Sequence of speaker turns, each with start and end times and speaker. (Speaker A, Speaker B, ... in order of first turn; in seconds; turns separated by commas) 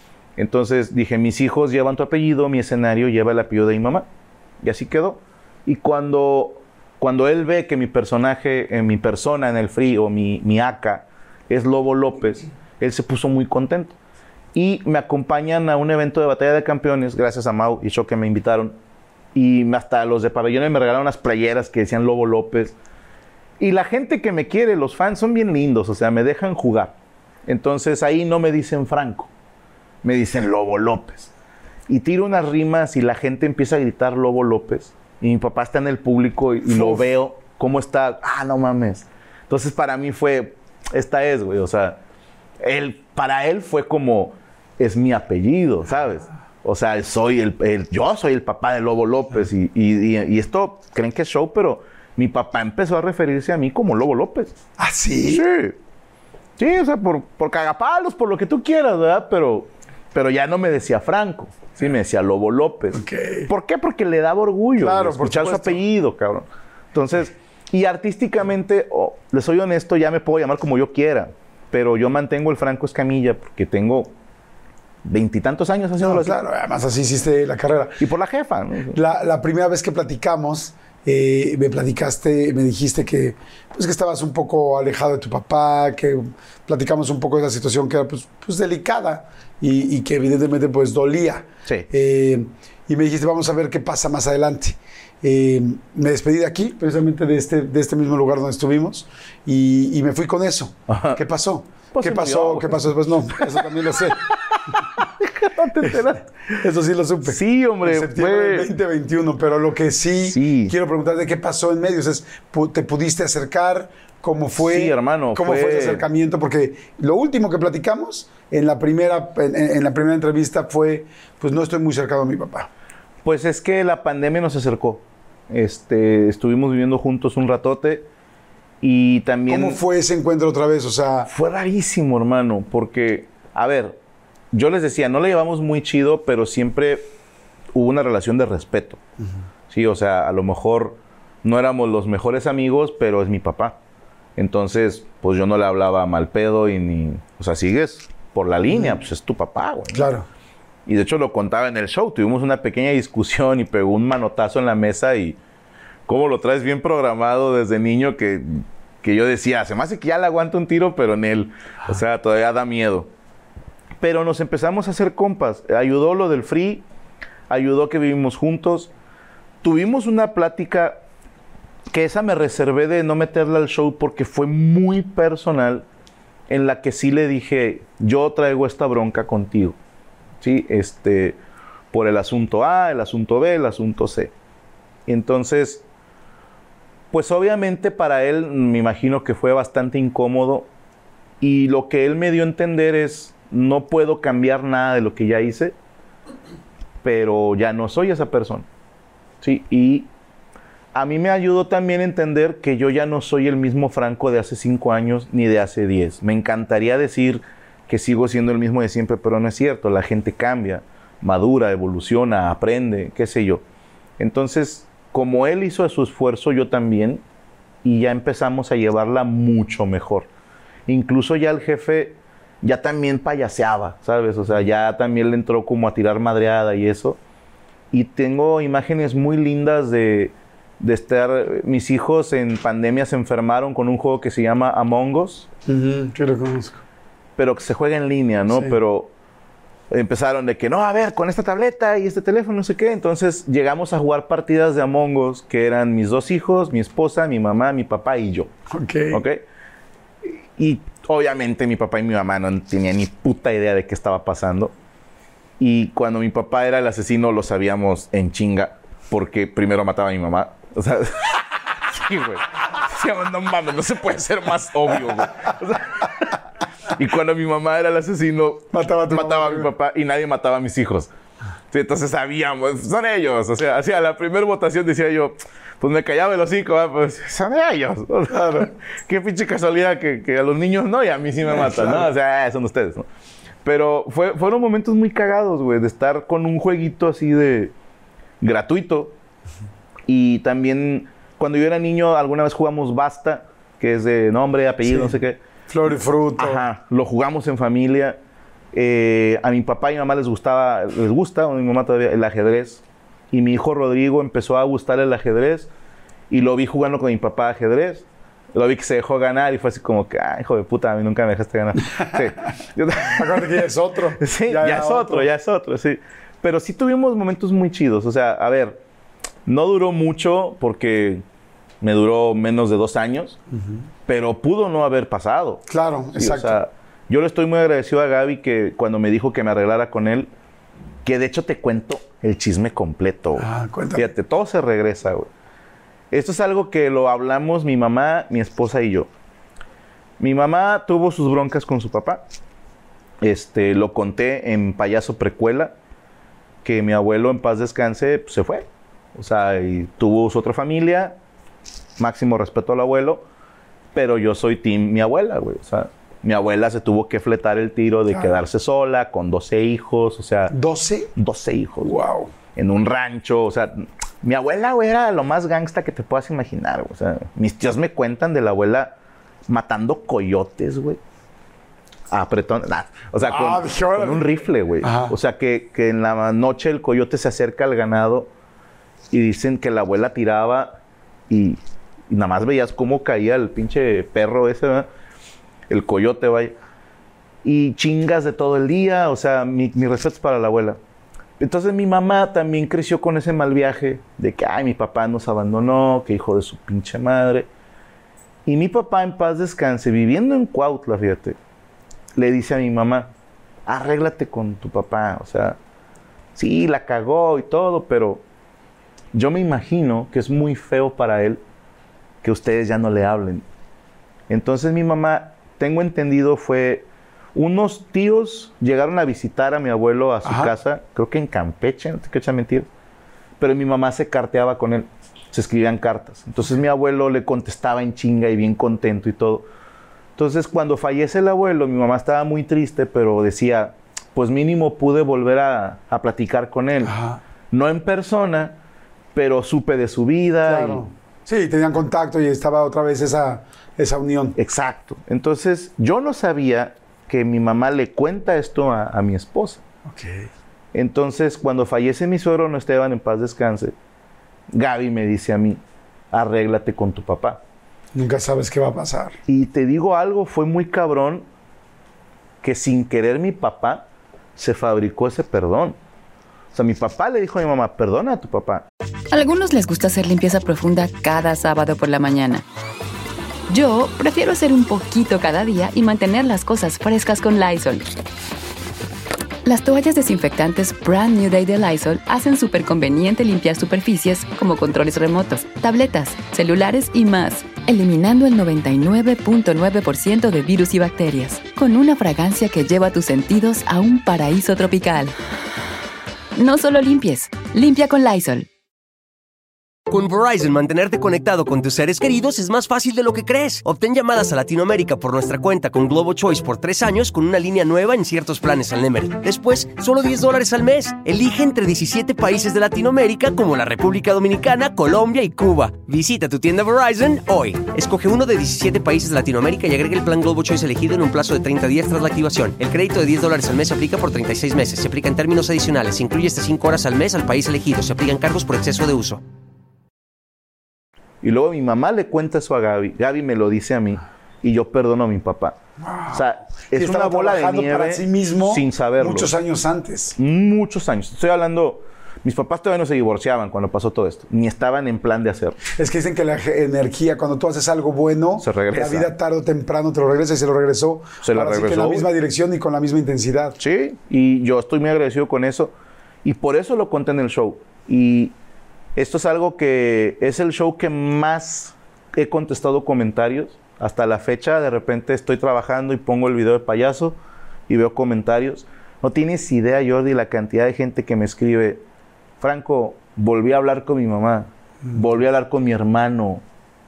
Speaker A: 0.4-4.0, Speaker A: 4.6-13.9, Speaker A: 14.5-18.8, Speaker A: 19.3-22.7, Speaker A: 23.6-26.9, Speaker A: 27.4-29.3, Speaker A: 30.0-31.3, Speaker A: 31.9-42.0, Speaker B: 36.7-37.0, Speaker A: 42.6-54.5, Speaker B: 54.8-55.4, Speaker A: 55.3-55.8, Speaker A: 56.6-74.1, Speaker B: 62.9-63.5, Speaker B: 64.8-65.8, Speaker A: 75.0-76.4, Speaker B: 76.0-78.0, Speaker A: 78.0-79.0, Speaker B: 78.9-104.2, Speaker A: 100.9-101.2, Speaker A: 101.9-106.6, Speaker B: 105.8-106.1, Speaker B: 106.6-122.7, Speaker A: 107.2-108.7, Speaker A: 110.2-110.7, Speaker A: 114.6-116.0, Speaker A: 123.2-128.0, Speaker A: 128.8-129.8, Speaker B: 129.5-131.3, Speaker A: 131.3-134.0, Speaker A: 134.5-137.0, Speaker A: 137.7-139.0, Speaker A: 139.7-143.7, Speaker A: 144.4-150.1, Speaker B: 148.7-149.0, Speaker B: 149.9-150.3, Speaker A: 150.8-155.4, Speaker A: 156.1-163.1, Speaker A: 164.0-166.8, Speaker A: 167.5-168.9, Speaker A: 169.6-171.0, Speaker A: 171.9-175.8, Speaker A: 176.5-179.8, Speaker A: 180.4-181.4, Speaker A: 181.9-184.3, Speaker A: 185.1-185.8, Speaker A: 187.1-190.7, Speaker A: 191.4-195.7, Speaker A: 197.0-198.7, Speaker A: 199.4-200.1, Speaker A: 200.9-213.6, Speaker A: 214.2-217.2, Speaker A: 217.8-220.3, Speaker A: 220.9-227.2, Speaker A: 227.9-235.4, Speaker B: 235.7-236.8, Speaker A: 237.4-239.1, Speaker B: 238.5-238.8, Speaker A: 239.9-248.5, Speaker B: 248.7-249.2, Speaker A: 249.1-249.4, Speaker A: 250.2-254.7, Speaker A: 255.6-266.3, Speaker A: 266.9-271.1, Speaker B: 268.7-269.7, Speaker A: 271.7-283.1, Speaker B: 278.3-278.7, Speaker B: 281.5-282.1, Speaker A: 283.6-287.7, Speaker A: 288.4-289.1, Speaker A: 290.1-295.4, Speaker B: 294.8-295.1, Speaker B: 295.7-296.6, Speaker A: 296.4-298.2, Speaker A: 298.7-305.7, Speaker A: 306.3-313.6, Speaker B: 313.1-315.3, Speaker A: 314.2-318.8, Speaker A: 319.4-321.2, Speaker A: 321.8-323.4, Speaker B: 323.5-323.8, Speaker A: 324.1-330.3, Speaker B: 325.7-326.6, Speaker A: 331.0-335.3, Speaker B: 333.4-334.1, Speaker A: 336.1-339.1, Speaker A: 340.2-342.2, Speaker A: 343.2-345.7, Speaker A: 346.6-348.6, Speaker A: 349.1-351.1, Speaker A: 352.0-353.2, Speaker A: 353.9-360.5, Speaker B: 358.1-358.4, Speaker B: 360.5-361.1, Speaker A: 361.1-361.9, Speaker B: 361.8-362.3, Speaker A: 362.5-368.9, Speaker A: 369.5-371.0, Speaker A: 372.1-378.3, Speaker B: 373.2-374.3, Speaker B: 374.8-375.1, Speaker A: 379.1-380.8, Speaker A: 381.3-384.9, Speaker A: 385.7-386.5, Speaker A: 387.4-390.8, Speaker A: 391.4-397.5, Speaker A: 398.4-401.4, Speaker A: 402.1-403.1, Speaker A: 403.7-405.6, Speaker A: 406.4-408.2, Speaker A: 409.1-411.4, Speaker A: 412.2-413.4, Speaker A: 414.3-422.7, Speaker B: 420.2-420.5, Speaker A: 423.4-429.4, Speaker A: 430.1-436.9, Speaker B: 436.8-437.2, Speaker A: 437.5-438.6, Speaker A: 439.1-440.9, Speaker B: 440.4-444.4, Speaker A: 444.4-449.6, Speaker B: 449.9-450.3, Speaker A: 450.7-453.7, Speaker A: 454.5-455.6, Speaker A: 456.1-457.4, Speaker B: 457.9-459.2, Speaker A: 459.3-461.2, Speaker A: 462.4-463.8, Speaker A: 464.4-465.8, Speaker A: 466.5-468.6, Speaker C: 469.1-472.4, Speaker C: 473.5-477.9, Speaker C: 479.4-495.1, Speaker C: 496.4-498.5, Speaker D: 499.9-529.2, Speaker A: 531.2-535.6, Speaker B: 535.8-540.1, Speaker A: 536.1-539.3, Speaker A: 540.2-545.6, Speaker B: 545.7-553.6, Speaker A: 548.4-549.1, Speaker A: 551.2-552.1, Speaker A: 553.6-555.7, Speaker A: 556.2-558.3, Speaker A: 559.0-567.1, Speaker A: 567.7-571.8, Speaker A: 572.4-576.4